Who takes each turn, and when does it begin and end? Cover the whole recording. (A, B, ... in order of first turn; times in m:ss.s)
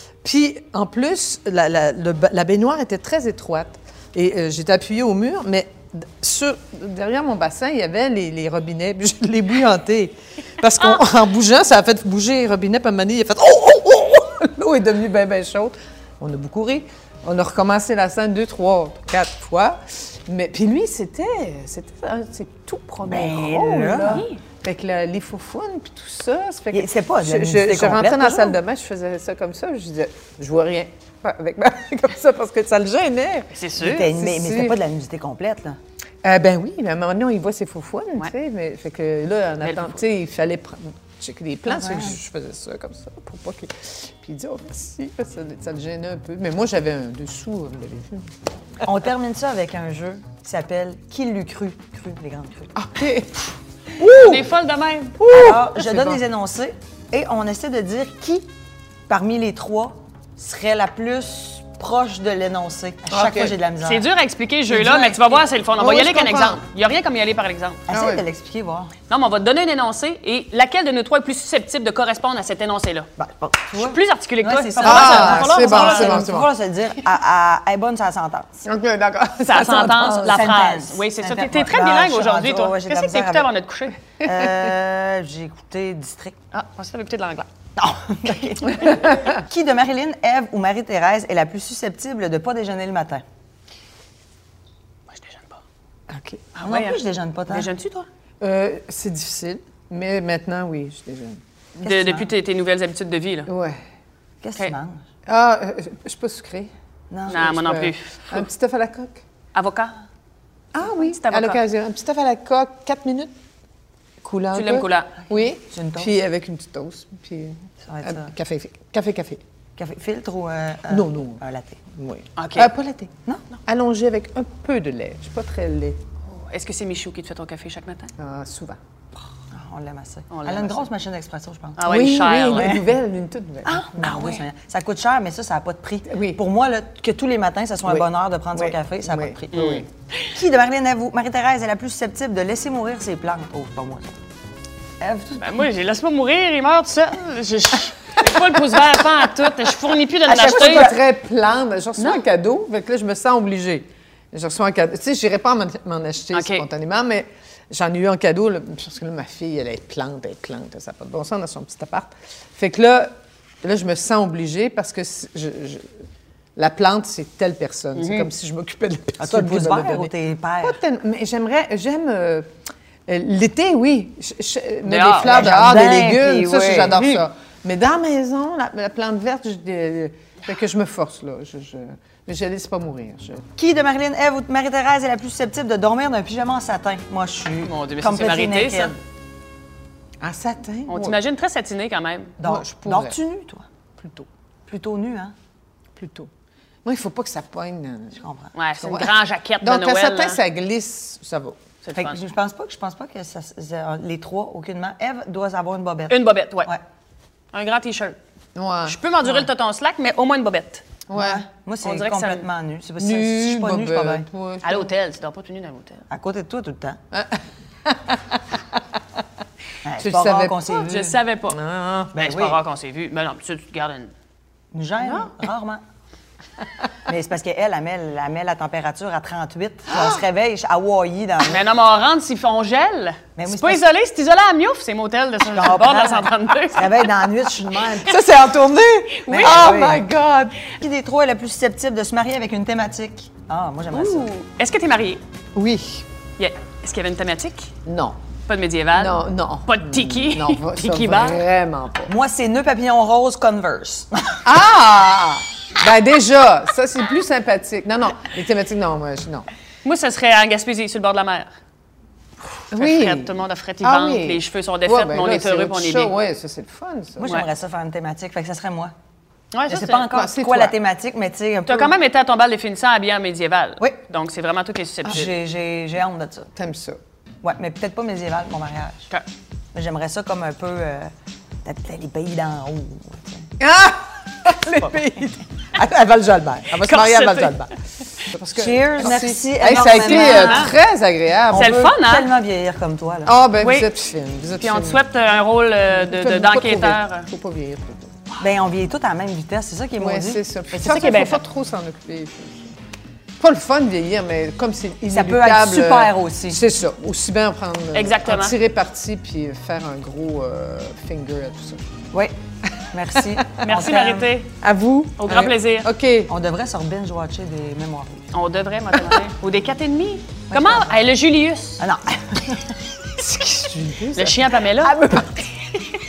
0:00.2-0:34.8 A
0:23.0-0:24.2 B
0:24.0-0:24.4 C
0:26.7-0:28.6 B
0:33.5-0:34.1 C
0:33.8-0:35.8 B
0:36.2-0:48.2 A
0:39.6-0:40.0 C
0:41.7-0:42.2 B
0:48.8-0:52.7 B
0:52.7-0:54.5 A
0:54.0-0:55.1 C
0:55.2-0:56.2 A
0:55.3-0:58.5 B
0:59.1-1:04.1 B
1:03.1-1:03.6 A
1:03.8-1:07.8 C
1:04.7-1:06.6 A
1:07.9-1:08.9 B
1:07.9-1:08.2 A
1:09.1-1:13.1 C
1:13.2-1:18.6 B
1:13.7-1:16.2 C
1:14.8-1:16.5 A
1:18.6-1:20.5 A
1:19.4-1:24.0 C
1:20.2-1:23.5 B
1:24.2-1:26.4 B
1:24.2-1:24.7 A
1:26.5-1:27.5 C
1:27.8-1:33.2 B
1:35.1-1:35.6 C
1:36.1-1:36.4 A
1:36.5-1:37.7 B
1:36.6-1:38.1 C
1:38.4-1:41.4 A
1:41.8-1:42.3 B
1:41.8-1:43.5 C
1:43.5-1:43.8 A
1:44.4-1:45.0 B
1:45.2-1:46.7 A
1:47.1-1:47.5 B
1:47.3-1:49.2 A
1:47.3-1:48.4 C
1:49.5-1:49.9 C
1:50.7-1:53.3 A
1:50.9-1:51.6 C
1:54.2-1:59.4 A
1:54.5-1:55.1 C
1:55.7-1:56.1 B
1:57.8-1:58.3 B
1:59.8-2:01.8 B
2:00.9-2:01.4 A
2:01.9-2:03.1 A
2:02.4-2:02.7 C
2:03.7-2:06.0 A
2:06.3-2:08.1 C
2:08.2-2:08.8 A
2:09.5-2:11.9 B
2:10.3-2:10.9 C
2:11.8-2:12.8 C
2:11.8-2:14.4 A
2:13.6-2:24.1 B
2:16.0-2:16.4 A
2:17.8-2:19.8 A
2:19.5-2:19.9 C
2:25.0-2:25.7 B
2:25.4-2:30.9 C
2:28.2-2:29.0 A
2:30.2-2:31.0 B
2:30.3-2:43.1 A
2:32.0-2:32.2 C
2:36.3-2:36.7 C
2:43.6-2:45.9 A
2:46.6-2:52.5 A
2:47.9-2:48.3 C
2:49.2-2:50.8 B
2:53.1-3:03.4 A
2:54.8-2:55.5 C
2:55.2-2:57.0 B
2:57.0-2:57.2 C
3:03.6-3:09.0 B
3:07.6-3:08.9 C
3:10.2-3:11.2 A
3:10.9-3:12.3 C
3:12.4-3:13.6 B
3:12.4-3:13.2 A
3:14.0-3:14.3 A
3:14.7-3:15.3 B
3:16.0-3:16.3 A
3:16.8-3:18.2 A
3:18.2-3:18.5 B
3:18.5-3:20.4 C
3:18.8-3:21.6 A
3:21.8-3:22.2 C
3:22.0-3:26.8 B
3:26.1-3:26.7 C
3:27.5-3:28.2 C
3:28.5-3:29.5 A
3:28.8-3:30.8 C
3:31.1-3:31.4 A
3:31.1-3:34.2 B
3:31.8-3:32.4 C
3:33.0-3:34.9 A
3:34.6-3:36.0 C
3:36.1-3:37.0 B
3:37.1-3:38.8 A
3:39.8-3:40.9 B
3:40.0-3:42.1 A
3:40.8-3:41.6 C
3:42.1-3:42.6 B
3:42.1-3:44.1 C
3:44.7-3:45.8 B
3:45.0-3:45.3 C
3:47.0-3:51.6 B
3:49.9-3:50.2 A
3:51.4-3:57.3 C
3:53.4-3:53.8 B
3:55.4-3:58.2 B
3:57.8-4:00.6 A
3:59.3-4:00.1 B
3:59.3-3:59.8 C
4:00.8-4:04.3 B
4:03.9-4:05.2 C
4:05.5-4:06.0 A
4:06.4-4:07.7 C
4:07.8-4:08.2 A
4:08.5-4:11.4 C
4:08.9-4:12.1 A
4:12.1-4:14.5 B
4:14.4-4:19.5 A
4:19.8-4:21.5 C
4:22.7-4:26.1 C
4:22.7-4:27.3 A
4:27.2-4:28.9 B
4:29.5-4:30.1 C
4:29.7-4:31.9 B
4:30.1-4:30.8 A
4:31.7-4:35.3 C
4:35.0-4:36.5 B
4:36.5-4:37.0 A
4:37.4-4:39.1 B
4:39.7-4:41.1 B
4:41.6-4:43.5 B
4:43.6-4:51.8 A
4:46.7-4:47.6 C
4:48.5-4:50.7 B
4:49.7-4:50.7 C
4:51.5-4:53.4 B
4:51.5-4:52.3 C
4:53.2-4:55.0 A
4:53.6-4:53.9 C
4:54.6-4:57.3 C
4:55.8-4:58.2 A
4:58.4-5:00.4 B
5:00.0-5:02.8 A
5:00.7-5:01.4 C
5:03.4-5:11.8 A
5:05.1-5:06.6 B
5:07.9-5:08.6 C
5:12.9-5:14.3 B
5:13.1-5:13.7 A
5:13.6-5:14.5 C
5:14.6-5:16.3 A
5:15.2-5:15.9 C
5:16.3-5:18.3 B
5:18.3-5:21.8 C
5:18.9-5:19.2 A
5:20.5-5:20.9 B
5:21.8-5:22.7 B
5:23.2-5:25.4 A
5:24.1-5:25.0 C